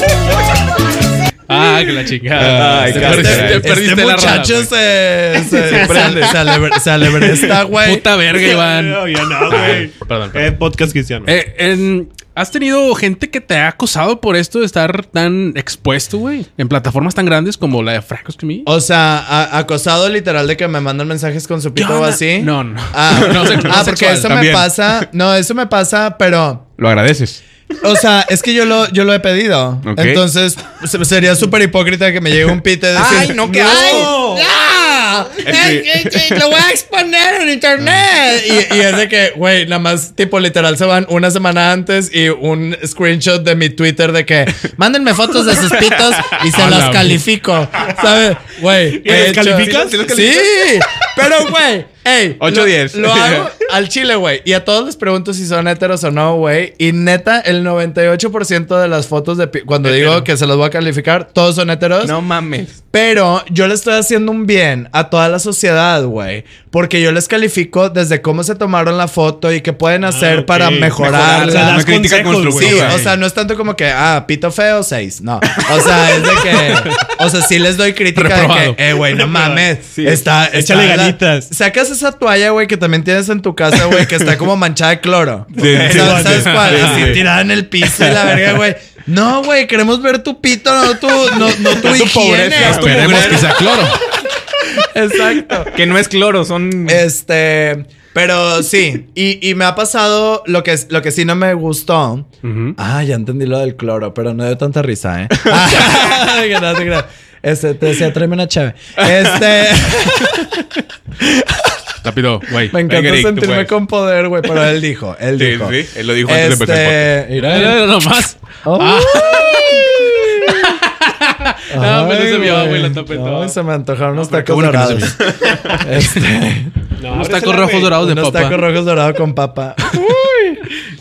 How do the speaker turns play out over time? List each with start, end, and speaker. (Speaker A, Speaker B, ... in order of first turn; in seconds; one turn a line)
Speaker A: 1.5-4.7
Speaker B: 2.4-3.7
Speaker C: 2.4-3.6
Speaker D: 2.9-8.1
Speaker E: 5.7-6.3
Speaker C: 5.7-6.6
Speaker A: 7.8-10.5
Speaker E: 8.3-11.3
Speaker A: 11.3-18.7
Speaker D: 18.6-26.7
Speaker A: 21.8-24.4
Speaker B: 23.5-25.0
Speaker B: 26.8-27.4
Speaker D: 27.8-62.1
Speaker B: 29.8-30.2
Speaker C: 33.0-34.2
Speaker E: 33.7-34.5
Speaker B: 35.4-36.4
Speaker A: 46.5-47.2
Speaker E: 48.9-50.2
Speaker C: 49.0-50.5
Speaker B: 52.4-53.5
Speaker C: 62.0-62.8
Speaker D: 62.9-71.9
Speaker E: 70.0-73.0
Speaker C: 71.0-71.8
Speaker B: 71.5-73.1
Speaker D: 72.6-93.9
Speaker A: 78.1-78.8
Speaker E: 79.2-79.7
Speaker C: 79.9-80.2
Speaker E: 80.5-81.5
Speaker B: 85.5-87.2
Speaker C: 85.7-86.3
Speaker E: 85.9-86.8
Speaker A: 86.5-87.0
Speaker C: 91.7-93.5
Speaker B: 92.2-93.2
Speaker A: 92.6-94.0
Speaker D: 94.6-95.8
Speaker C: 95.7-97.0
Speaker D: 96.9-110.7
Speaker A: 102.4-102.8
Speaker D: 111.2-111.8
Speaker A: 112.0-112.8
Speaker D: 112.7-118.0
Speaker B: 112.8-113.8
Speaker B: 115.4-117.1
Speaker A: 117.4-123.6
Speaker D: 118.6-120.8
Speaker D: 121.7-126.8
Speaker A: 124.1-125.3
Speaker E: 127.0-128.0
Speaker A: 127.1-128.6
Speaker D: 128.0-130.7